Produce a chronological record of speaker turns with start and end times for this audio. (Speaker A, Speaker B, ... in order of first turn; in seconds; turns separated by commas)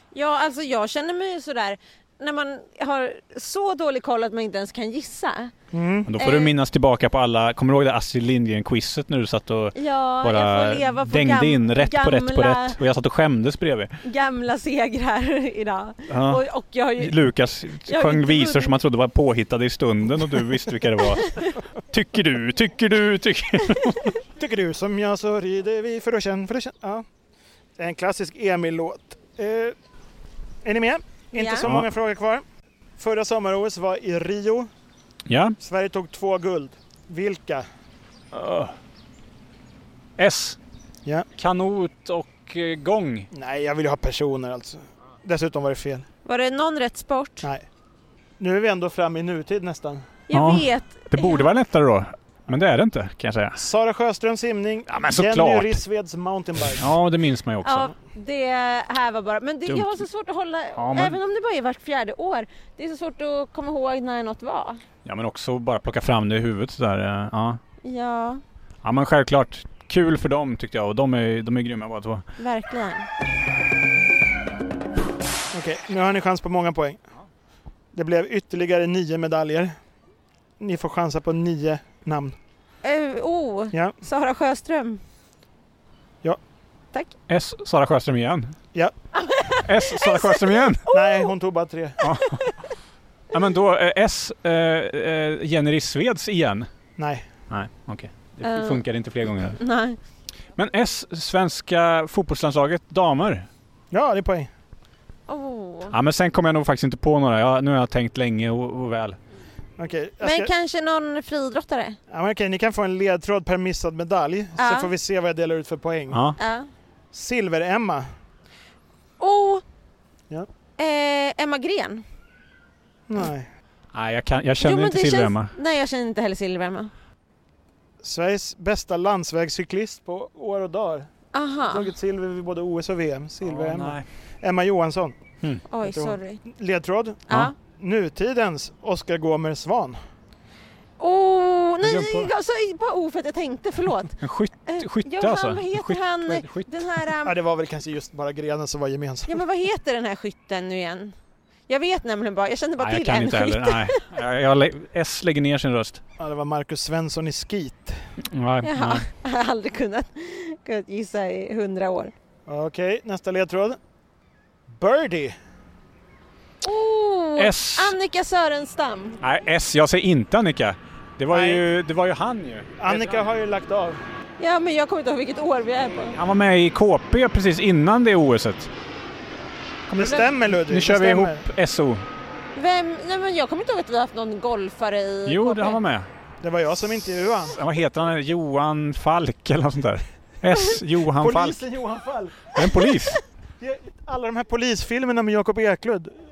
Speaker A: 0.1-5.5, Speaker B: 5.7-6.1, Speaker C: 6.1-13.9, Speaker A: 6.2-6.5, Speaker A: 9.7-12.8, Speaker A: 14.0-17.2, Speaker C: 16.1-16.4, Speaker C: 17.0-24.1, Speaker A: 17.8-18.7, Speaker A: 21.1-21.5, Speaker A: 23.8-24.1, Speaker B: 24.4-27.1, Speaker B: 27.8-29.7, Speaker B: 30.6-32.4, Speaker A: 31.3-31.7, Speaker B: 33.0-34.7, Speaker C: 35.2-35.6, Speaker B: 35.6-37.6, Speaker C: 38.3-38.7, Speaker C: 40.2-40.6, Speaker C: 41.4-43.3, Speaker B: 43.3-46.0, Speaker A: 46.2-47.5, Speaker B: 48.4-50.1, Speaker A: 50.3-51.5, Speaker C: 50.3-53.6, Speaker B: 53.6-56.9, Speaker C: 54.9-55.8, Speaker C: 56.7-57.9, Speaker A: 57.6-64.8, Speaker C: 59.7-60.0, Speaker C: 60.8-61.2, Speaker C: 65.0-67.6, Speaker A: 67.8-68.4, Speaker C: 68.8-72.2, Speaker A: 72.4-73.1, Speaker B: 75.5-77.0, Speaker B: 77.9-79.7, Speaker B: 80.6-82.3, Speaker A: 82.8-85.0, Speaker C: 87.3-88.5, Speaker A: 89.1-91.3, Speaker C: 89.6-90.8, Speaker B: 90.9-92.0, Speaker C: 92.0-92.5, Speaker A: 92.0-92.6, Speaker C: 93.3-96.7, Speaker B: 97.0-97.3, Speaker C: 97.5-99.6, Speaker A: 98.4-98.8, Speaker A: 99.5-100.0, Speaker C: 100.5-103.5, Speaker B: 103.9-104.5, Speaker A: 105.3-105.9, Speaker C: 105.9-109.2, Speaker B: 109.8-110.5, Speaker A: 110.2-112.0, Speaker B: 112.1-116.2, Speaker A: 114.6-114.9, Speaker C: 116.1-116.4, Speaker A: 116.4-116.7, Speaker B: 117.1-118.1, Speaker A: 119.2-119.6, Speaker A: 120.8-122.0, Speaker B: 123.1-123.5, Speaker C: 123.9-125.5, Speaker A: 124.6-126.9, Speaker B: 128.0-131.1, Speaker A: 131.3-131.9, Speaker B: 131.7-135.2, Speaker C: 133.4-134.1, Speaker A: 135.7-136.4, Speaker B: 135.8-140.0, Speaker A: 137.3-137.5, Speaker A: 141.0-147.3, Speaker C: 141.8-142.3, Speaker C: 144.2-146.8, Speaker B: 147.2-149.4, Speaker A: 149.3-151.1, Speaker A: 151.7-154.0, Speaker C: 152.8-156.0, Speaker B: 156.2-158.0, Speaker C: 158.2-159.1, Speaker A: 158.6-162.1, Speaker B: 162.5-163.8, Speaker B: 164.7-165.4, Speaker A: 166.6-169.2, Speaker C: 167.3-167.9, Speaker C: 169.2-172.9, Speaker B: 171.3-171.6, Speaker B: 172.8-174.0, Speaker A: 174.4-176.2, Speaker C: 176.1-178.7, Speaker B: 179.9-181.4, Speaker C: 179.9-182.1, Speaker A: 182.6-185.8, Speaker C: 185.2-186.1, Speaker B: 186.4-187.6, Speaker C: 187.5-191.6, Speaker B: 191.2-192.6, Speaker C: 192.5-193.2, Speaker B: 193.6-196.2